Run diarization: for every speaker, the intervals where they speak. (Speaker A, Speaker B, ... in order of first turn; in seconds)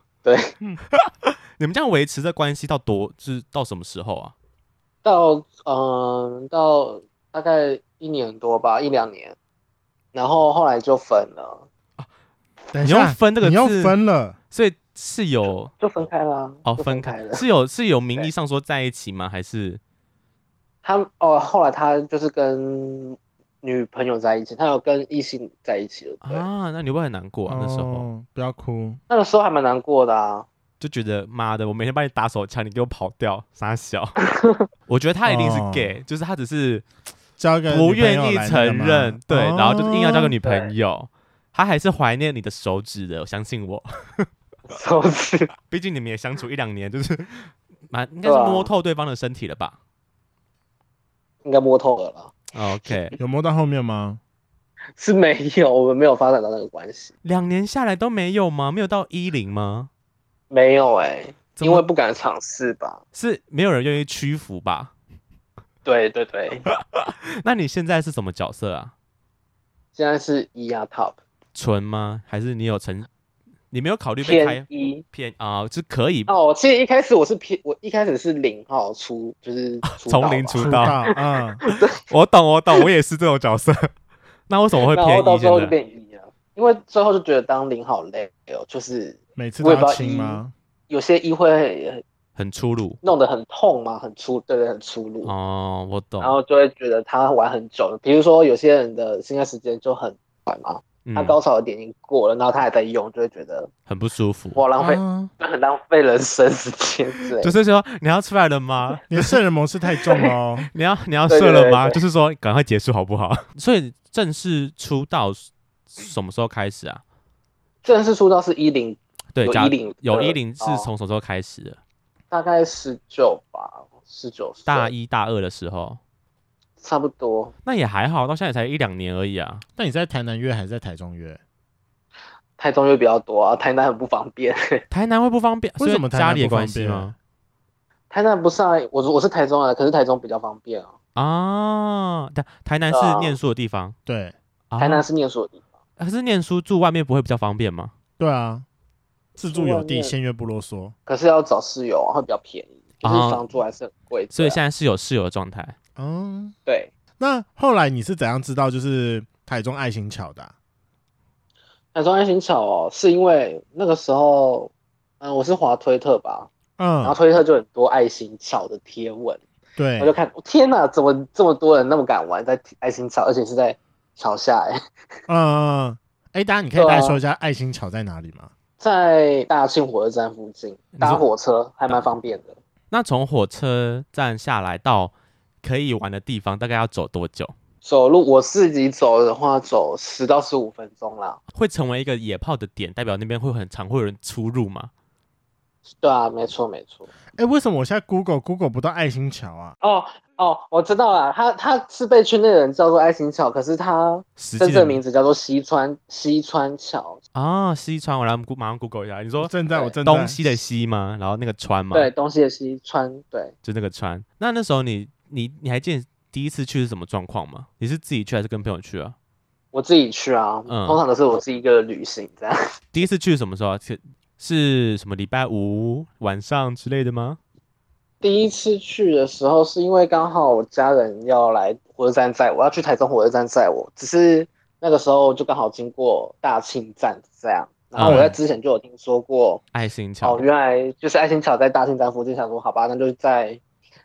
Speaker A: 0.2-0.5, 5.0-9.4, 10.1-11.6, 15.7-17.4, 20.8-26.5, 29.1-30.5, 34.2-34.7, 40.4-40.7, 44.7-45.5, 48.2-48.7, 51.4-53.0, 55.0-57.1, 60.5-63.0, 65.8-66.7, 70.0-71.2, 74.2-75.0, 76.3-80.9, 81.6-82.0, 84.9-92.0, 93.0-95.3, 96.2-103.7, 104.5-107.5, 111.3-112.0, 117.8-120.9, 122.3-124.9, 126.8-127.5, 132.6-134.8, 138.1-140.9, 142.9-143.4, 144.8-145.6, 149.5-150.2, 151.1-154.6, 156.7-156.9, 161.9-166.5, 167.0-169.4, 170.0-174.8, 176.8-177.2, 178.8-182.6, 187.8-191.4, 196.0-197.1, 199.8-207.2, 211.9-213.5, 219.7-222.6, 228.2-239.6, 240.2-243.6
Speaker B: 1.0-4.3, 12.8-14.0, 14.5-15.7, 16.7-19.8, 26.2-28.1, 30.8-34.2, 34.9-36.9, 37.7-44.3, 45.7-49.8, 52.5-53.1, 57.2-59.9, 61.6-61.9, 63.1-64.9, 66.9-68.9, 71.5-73.1, 73.7-76.3, 80.0-81.0, 82.1-83.9, 84.5-85.7, 92.4-93.0, 95.2-96.4, 101.0-101.4, 103.9-104.6, 107.4-109.3, 110.7-117.0, 119.3-121.8, 124.7-126.0, 127.7-129.6, 134.9-137.1, 141.2-144.0, 144.7-145.1, 146.0-147.9, 153.0-153.4, 154.3-155.8, 182.9-187.5, 191.5-194.9, 204.4-205.0, 207.3-209.6, 210.1-212.1, 213.6-219.2, 220.7-221.0, 222.9-227.4, 238.0-238.3, 239.7-240.4
Speaker C: 12.7-14.4, 27.5-29.0, 35.2-35.9, 37.4-40.3, 53.2-54.2, 80.6-81.6, 89.4-90.5, 104.8-105.3, 109.1-110.7, 129.8-131.4, 135.8-137.2, 144.1-144.3, 148.2-148.7, 149.4-150.9, 156.0-156.6, 157.2-160.5, 166.8-167.2, 169.8-170.1, 175.3-178.5, 197.4-199.8, 209.4-210.4, 238.0-238.3